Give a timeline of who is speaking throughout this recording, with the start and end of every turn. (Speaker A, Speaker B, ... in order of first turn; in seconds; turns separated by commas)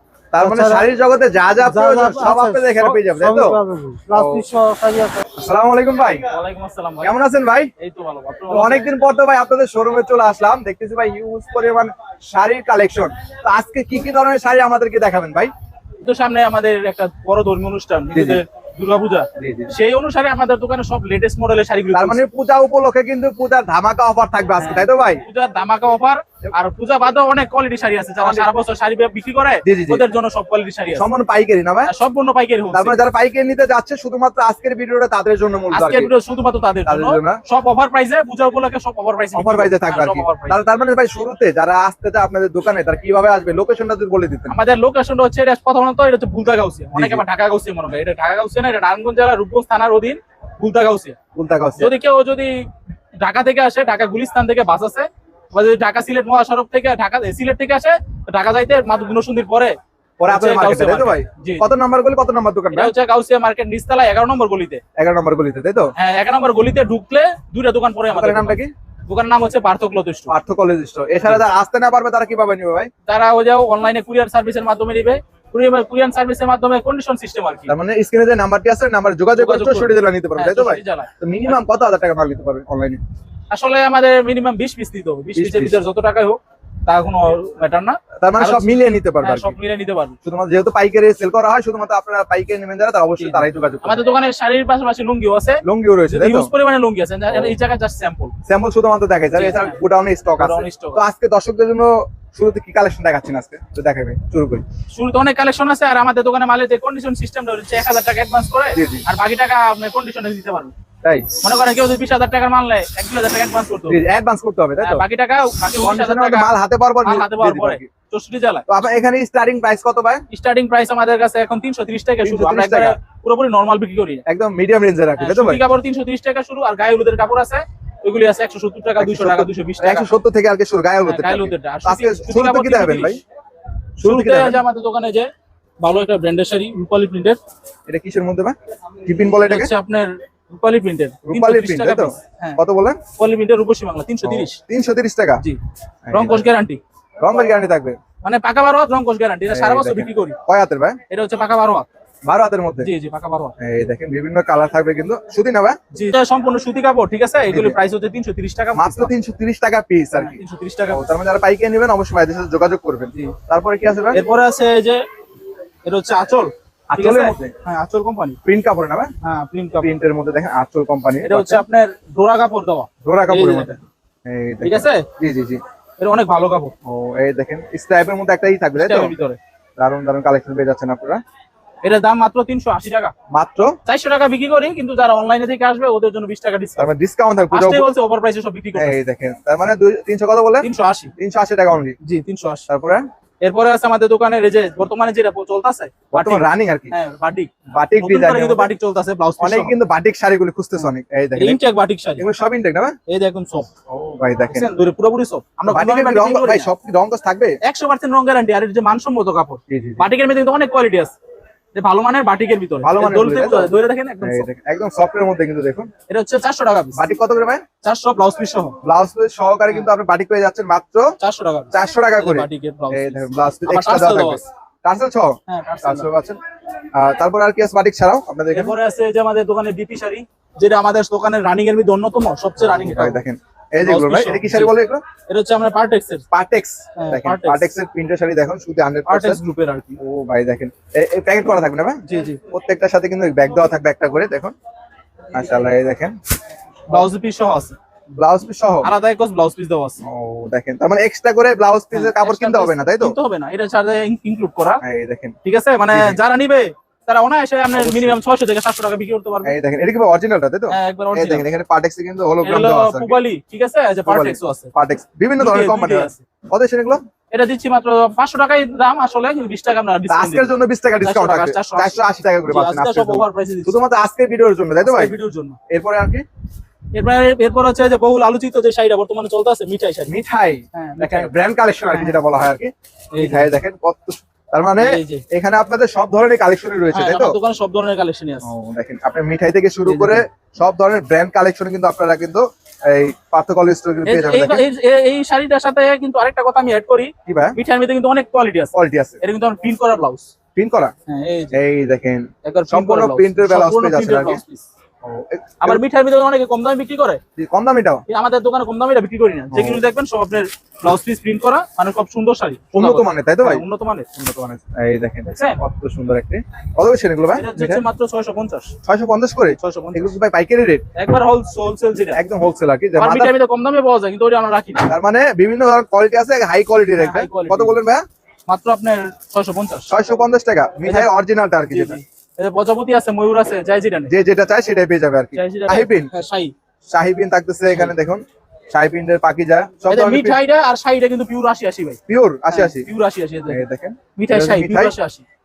Speaker A: 0.3-3.6, Speaker B: 0.4-0.9, Speaker B: 1.6-5.2, Speaker A: 4.1-4.5, Speaker A: 5.3-6.2, Speaker C: 6.3-7.1, Speaker A: 7.0-7.7, Speaker C: 7.8-8.9, Speaker A: 8.5-15.5, Speaker C: 16.0-22.2, Speaker A: 18.1-18.4, Speaker A: 19.4-19.7, Speaker A: 21.9-25.2, Speaker C: 24.6-31.1, Speaker A: 28.2-28.5, Speaker A: 29.6-30.1, Speaker A: 30.9-31.9, Speaker C: 31.9-33.0, Speaker A: 32.7-36.1, Speaker C: 35.7-40.6, Speaker A: 36.9-37.4, Speaker A: 39.3-44.5, Speaker C: 44.5-51.1, Speaker A: 46.9-47.2, Speaker A: 51.3-51.9, Speaker C: 51.8-52.5, Speaker C: 53.2-61.7, Speaker A: 60.2-62.9, Speaker C: 62.7-64.8, Speaker A: 65.0-65.9, Speaker C: 66.0-70.3, Speaker A: 68.1-68.7, Speaker A: 70.3-72.9, Speaker C: 73.0-77.7, Speaker A: 77.7-83.0, Speaker C: 79.3-81.6, Speaker C: 83.5-88.7, Speaker A: 85.3-85.8, Speaker A: 88.2-89.6, Speaker C: 89.2-90.2, Speaker A: 90.2-94.0, Speaker C: 93.2-98.3, Speaker A: 95.6-96.5, Speaker A: 97.3-97.5, Speaker A: 98.5-104.6, Speaker C: 99.3-99.8, Speaker C: 100.4-101.0, Speaker C: 104.9-110.7, Speaker A: 108.7-109.0, Speaker A: 111.0-111.4, Speaker C: 111.4-114.0, Speaker A: 113.9-115.0, Speaker C: 114.8-116.5, Speaker A: 115.8-117.9, Speaker C: 117.0-118.7, Speaker A: 118.7-120.2, Speaker C: 120.3-124.2, Speaker A: 122.2-123.0, Speaker A: 124.3-125.6, Speaker C: 125.2-130.1, Speaker A: 129.0-133.2, Speaker C: 131.0-133.2, Speaker A: 134.0-134.6, Speaker C: 134.0-135.3, Speaker C: 135.8-137.4, Speaker A: 137.9-139.7, Speaker C: 139.4-142.6, Speaker A: 141.2-143.0, Speaker C: 143.2-144.6, Speaker A: 144.2-145.4, Speaker A: 146.1-146.5, Speaker C: 146.1-146.8, Speaker A: 147.2-148.0, Speaker C: 148.2-150.4, Speaker A: 149.5-151.0, Speaker C: 151.1-151.9, Speaker A: 152.2-152.9, Speaker C: 152.8-153.6, Speaker A: 153.6-155.8, Speaker C: 155.9-159.1, Speaker A: 157.5-157.8, Speaker A: 158.7-164.2, Speaker C: 160.1-161.0, Speaker C: 164.1-165.0, Speaker C: 165.8-168.4, Speaker A: 166.9-167.5, Speaker A: 168.4-169.1, Speaker C: 169.2-169.9, Speaker A: 169.8-171.6, Speaker C: 171.2-173.8, Speaker A: 173.0-173.7, Speaker A: 174.2-175.6, Speaker C: 174.6-175.1, Speaker C: 176.0-176.7, Speaker A: 176.8-179.1, Speaker C: 178.8-179.4, Speaker A: 179.8-181.2, Speaker C: 181.8-183.1, Speaker A: 183.3-183.8, Speaker C: 183.8-186.9, Speaker A: 186.8-187.9, Speaker C: 187.5-189.0, Speaker A: 188.7-192.0, Speaker C: 190.6-191.1, Speaker C: 192.0-192.7, Speaker A: 192.7-193.1, Speaker C: 193.4-199.8, Speaker A: 196.1-196.9, Speaker A: 197.7-198.7, Speaker A: 199.4-201.6, Speaker C: 200.8-202.2, Speaker A: 202.2-202.9, Speaker C: 203.1-203.7, Speaker A: 203.9-204.7, Speaker C: 204.5-206.7, Speaker A: 205.7-207.6, Speaker C: 207.6-211.1, Speaker A: 209.7-210.1, Speaker C: 211.7-214.5, Speaker A: 212.8-215.9, Speaker C: 216.1-217.2, Speaker A: 216.9-217.6, Speaker C: 217.8-218.8, Speaker A: 218.8-221.1, Speaker C: 221.2-224.4, Speaker A: 221.7-226.4, Speaker C: 225.5-226.1, Speaker A: 226.9-228.8, Speaker C: 228.5-233.2, Speaker A: 232.6-235.0, Speaker C: 233.8-234.8, Speaker C: 235.3-236.2, Speaker A: 236.3-239.4, Speaker C: 237.0-237.7, Speaker C: 239.1-240.0, Speaker A: 240.0-244.5, Speaker C: 242.1-242.4, Speaker A: 245.3-246.1, Speaker C: 246.9-247.8, Speaker A: 248.2-248.9, Speaker C: 248.8-250.0, Speaker A: 250.0-253.2, Speaker C: 251.9-254.8, Speaker A: 254.8-255.3, Speaker C: 255.4-259.6, Speaker A: 255.9-256.2, Speaker A: 257.7-258.2, Speaker A: 259.4-263.2, Speaker C: 260.7-261.4, Speaker C: 262.4-264.7, Speaker A: 264.1-267.0, Speaker C: 265.4-266.2, Speaker C: 267.3-273.8, Speaker A: 270.1-275.2, Speaker C: 274.8-275.6, Speaker A: 275.7-276.2, Speaker C: 276.9-280.1, Speaker A: 280.1-287.4, Speaker C: 280.7-281.3, Speaker C: 283.1-283.5, Speaker C: 284.8-285.2, Speaker C: 286.9-288.5, Speaker A: 288.4-294.6, Speaker C: 289.9-290.2, Speaker C: 294.1-300.3, Speaker A: 297.2-297.6, Speaker A: 298.7-299.2, Speaker A: 300.6-300.9, Speaker C: 301.1-301.6, Speaker A: 301.5-304.4, Speaker C: 302.4-304.7, Speaker A: 305.0-305.8, Speaker C: 305.6-307.2, Speaker A: 307.4-308.0, Speaker C: 308.1-314.1, Speaker A: 309.5-309.8, Speaker A: 312.7-313.6, Speaker A: 314.1-317.8, Speaker C: 315.2-315.6, Speaker C: 317.3-318.7, Speaker A: 318.8-320.8, Speaker C: 319.5-320.1, Speaker C: 320.9-322.2, Speaker A: 322.1-323.3, Speaker C: 323.0-324.9, Speaker A: 324.9-328.0, Speaker C: 327.0-327.8, Speaker C: 328.5-329.9, Speaker A: 329.9-332.0, Speaker C: 330.8-331.1, Speaker C: 331.7-334.1, Speaker A: 334.1-336.1, Speaker C: 335.3-336.5, Speaker A: 336.9-340.4, Speaker C: 339.9-342.0, Speaker A: 342.1-342.9, Speaker C: 342.5-343.6, Speaker A: 343.5-344.9, Speaker C: 344.1-345.2